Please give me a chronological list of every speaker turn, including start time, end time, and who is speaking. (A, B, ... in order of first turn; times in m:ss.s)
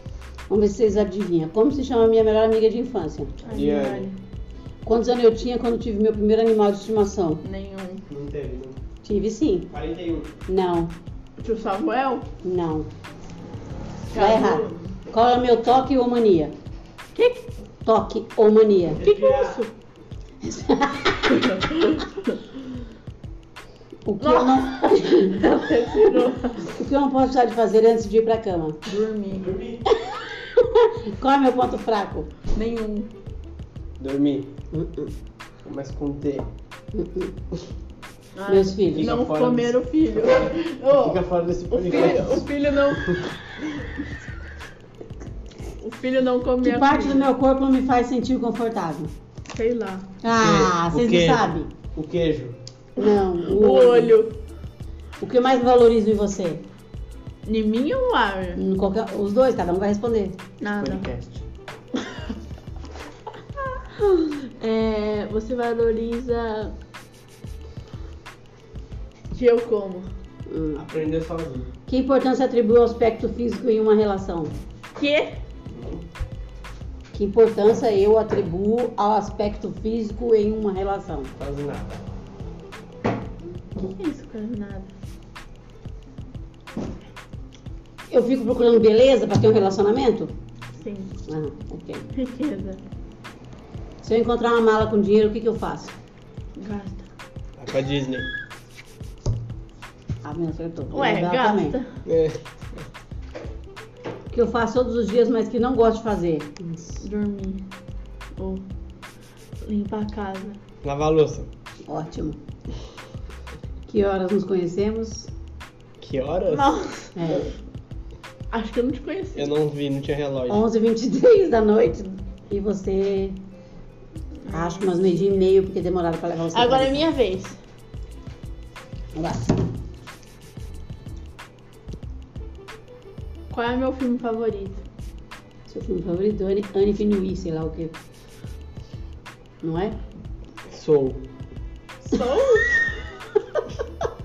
0:00.5-0:03.5 A
0:03.4-0:04.2 B
0:03.5-0:04.1 C
0:04.8-0:07.4 A
0:07.4-0:08.0 B
0:08.1-0:08.8 C
0:09.0-0:09.8 A
0:09.7-0:10.4 C
0:10.5-0:10.9 A
0:11.4-0:12.3 B
0:12.4-0:12.9 A
0:14.1-0:14.9 B
0:14.1-0:16.5 A
0:17.2-0:17.4 B
0:17.8-0:19.0 A
0:19.0-0:19.6 C
0:19.0-0:19.7 B
0:20.4-0:21.4 A
0:21.2-0:22.4 B
0:24.1-0:25.5 A
0:24.2-0:26.7 B
0:26.6-0:28.8 A
0:28.8-0:29.7 B
0:29.9-0:32.3 A
0:32.5-0:33.1 B
0:34.0-0:34.5 C
0:34.7-0:35.1 A
0:35.6-0:36.5 C
0:36.9-0:37.3 A
0:38.4-0:43.7 B
0:38.5-0:39.1 A
0:38.9-0:42.5 C
0:45.8-0:47.3 B
0:46.6-0:49.1 A
0:49.5-0:50.1 B
0:50.2-0:51.7 A
0:50.3-0:52.6 C
0:53.0-0:54.2 A
0:53.0-0:54.4 B
0:55.2-0:56.6 A
0:57.4-0:58.6 B
0:58.6-1:00.4 A
1:00.6-1:01.1 B
1:00.8-1:01.4 C
1:03.9-1:06.8 B
1:09.3-1:10.1 B
1:10.5-1:10.8 A
1:10.8-1:11.7 C
1:11.9-1:14.5 A
1:15.0-1:15.4 B
1:15.7-1:16.0 C
1:17.1-1:21.3 A
1:21.4-1:21.9 C
1:23.8-1:24.9 B
1:28.1-1:30.3 A
1:30.8-1:31.2 B
1:31.3-1:32.0 A
1:32.1-1:32.8 B
1:34.0-1:35.9 A
1:36.6-1:37.1 B
1:37.6-1:38.3 C
1:40.2-1:41.8 A
1:40.9-1:42.0 B
1:42.0-1:42.8 C
1:44.3-1:47.0 A
1:47.0-1:47.7 B
1:48.4-1:48.6 B
1:49.6-1:50.6 B
1:50.8-1:51.5 C
1:51.9-1:52.4 A
1:53.9-1:55.3 A
1:56.0-1:56.8 C
1:56.5-1:57.4 B
1:57.2-1:57.5 A
1:58.5-1:59.5 B
1:59.4-2:00.7 C
2:00.5-2:03.4 A
2:04.4-2:05.0 B
2:04.5-2:07.1 A
2:06.5-2:07.6 B
2:09.2-2:09.6 A
2:13.5-2:14.8 B
2:15.7-2:17.9 A
2:19.6-2:20.0 A
2:20.7-2:21.2 C
2:22.0-2:23.4 B